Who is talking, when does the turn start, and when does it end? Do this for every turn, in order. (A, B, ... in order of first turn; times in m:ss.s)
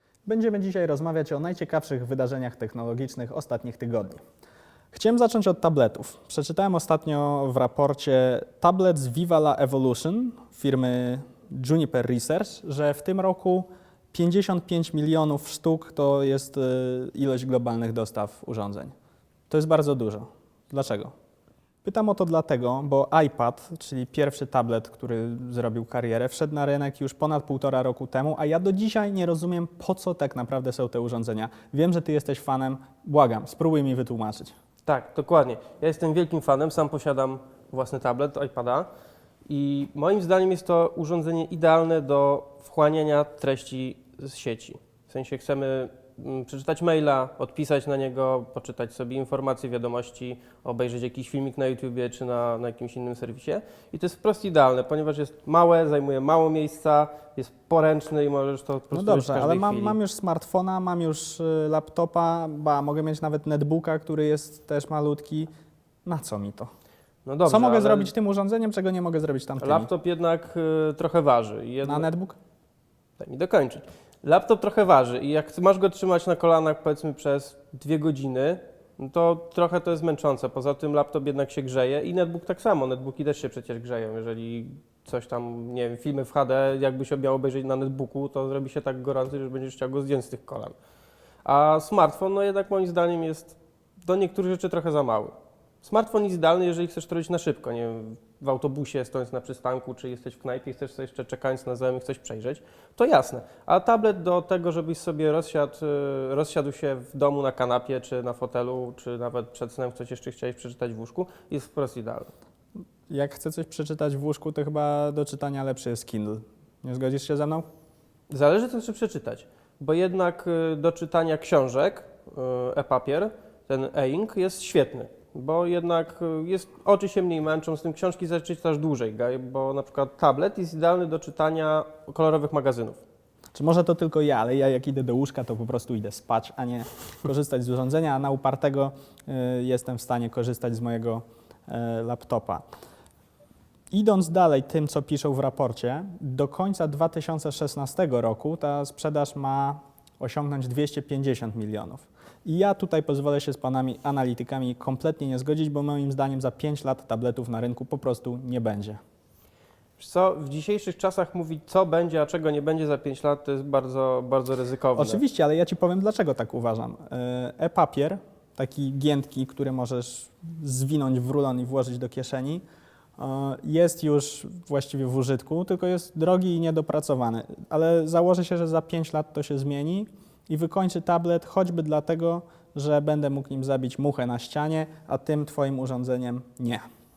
0:00.2-0:04.2 A
0:04.9-0:18.9 A
0:19.5-0:21.1 A
0:21.8-0:34.5 A
0:34.8-0:38.9 B
0:39.4-1:00.0 B
0:58.9-1:05.5 A
1:06.0-1:06.7 A
1:07.2-1:08.1 B
1:07.4-1:09.9 A
1:09.6-1:12.1 B
1:11.8-1:12.4 A
1:13.2-1:30.8 B
1:31.4-1:52.3 B
1:53.1-1:57.6 A
1:58.3-2:13.0 B
2:13.5-2:22.6 A
2:23.9-2:39.0 A
2:40.0-2:45.2 B
2:45.0-2:52.6 A
2:53.2-3:06.8 A